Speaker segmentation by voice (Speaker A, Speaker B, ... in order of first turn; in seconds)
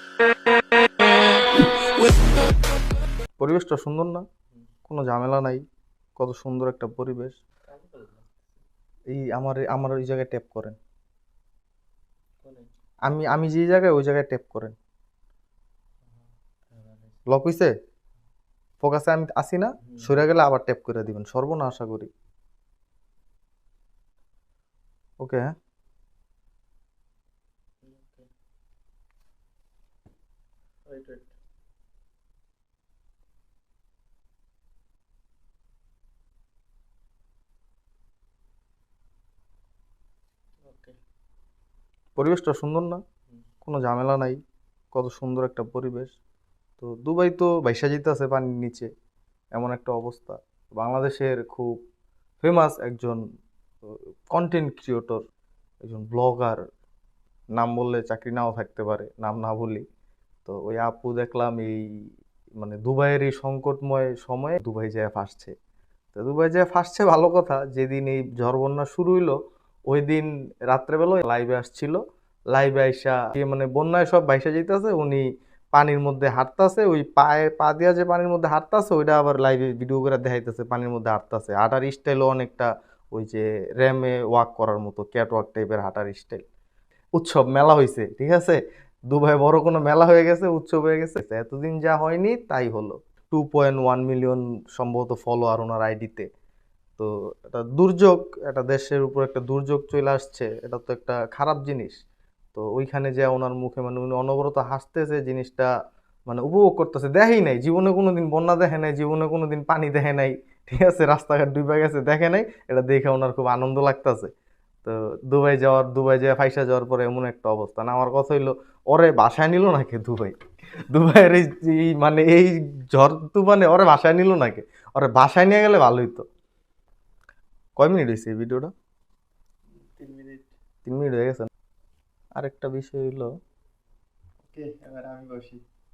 Speaker A: 3.4-4.2, 4.9-5.6, 6.2-7.4, 9.1-10.8, 13.1-14.7, 17.3-17.7, 18.8-22.1, 25.2-25.5, 42.1-43.0, 43.6-44.4, 44.9-46.1, 46.8-48.9, 49.5-51.8, 52.4-53.2, 53.9-55.2, 55.8-56.6, 57.5-59.8, 60.5-65.5, 66.1-72.0, 72.5-86.4, 87.2-96.3, 97.0-102.0, 102.5-105.7, 106.3-114.3, 114.8-126.2, 127.8-128.7, 130.8-131.5, 132.4-133.3
Speaker B: 7.7-8.4, 12.4-12.7, 16.1-17.2, 19.8-20.2, 27.8-28.3, 30.9-31.3, 40.6-41.0, 129.8-130.5, 134.5-135.6